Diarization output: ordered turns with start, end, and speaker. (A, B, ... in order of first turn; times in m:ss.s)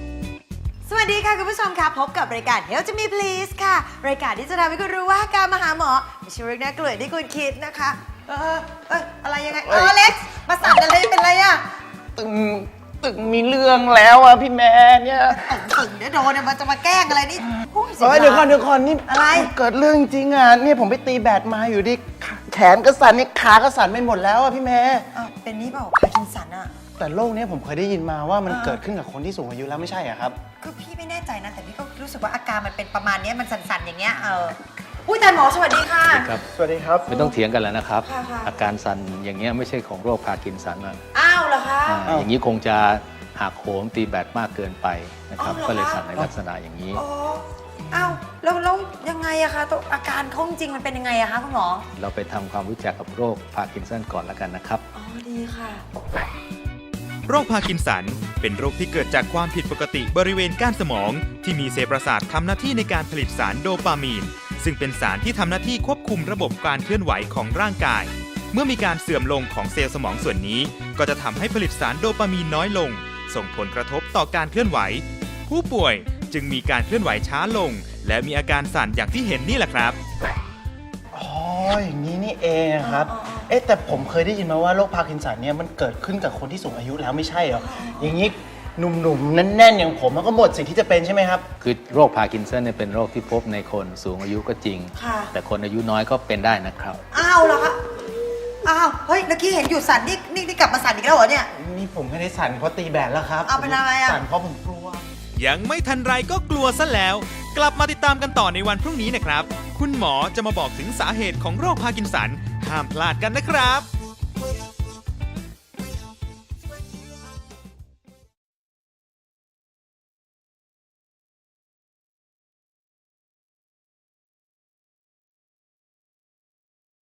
0:00.8-0:11.6 A
0:09.6-0:10.0 B
0:12.2-0:15.5 B
0:15.3-0:18.5 A
0:18.0-0:25.1 B
0:19.0-0:19.5 A
0:25.1-0:26.8 A
0:27.0-0:30.4 B
0:28.5-0:28.8 A
0:30.6-0:36.4 A
0:36.1-0:36.4 C
0:36.4-0:37.1 B
0:37.1-0:41.0 C
0:38.0-0:38.5 A
0:41.1-0:42.1 A
0:41.8-0:47.0 C
0:45.4-0:46.3 A
0:46.9-0:51.9 A
0:51.9-0:54.8 C
0:54.9-0:55.8 A
0:57.3-1:20.0 D
1:21.1-1:31.4 B
1:22.8-1:23.5 A
1:27.6-1:28.1 A
1:31.6-1:37.0 C
1:35.0-1:35.3 A
1:37.1-1:41.5 A
1:41.5-1:45.0 B
1:43.4-1:44.2 A
1:45.3-1:53.9 D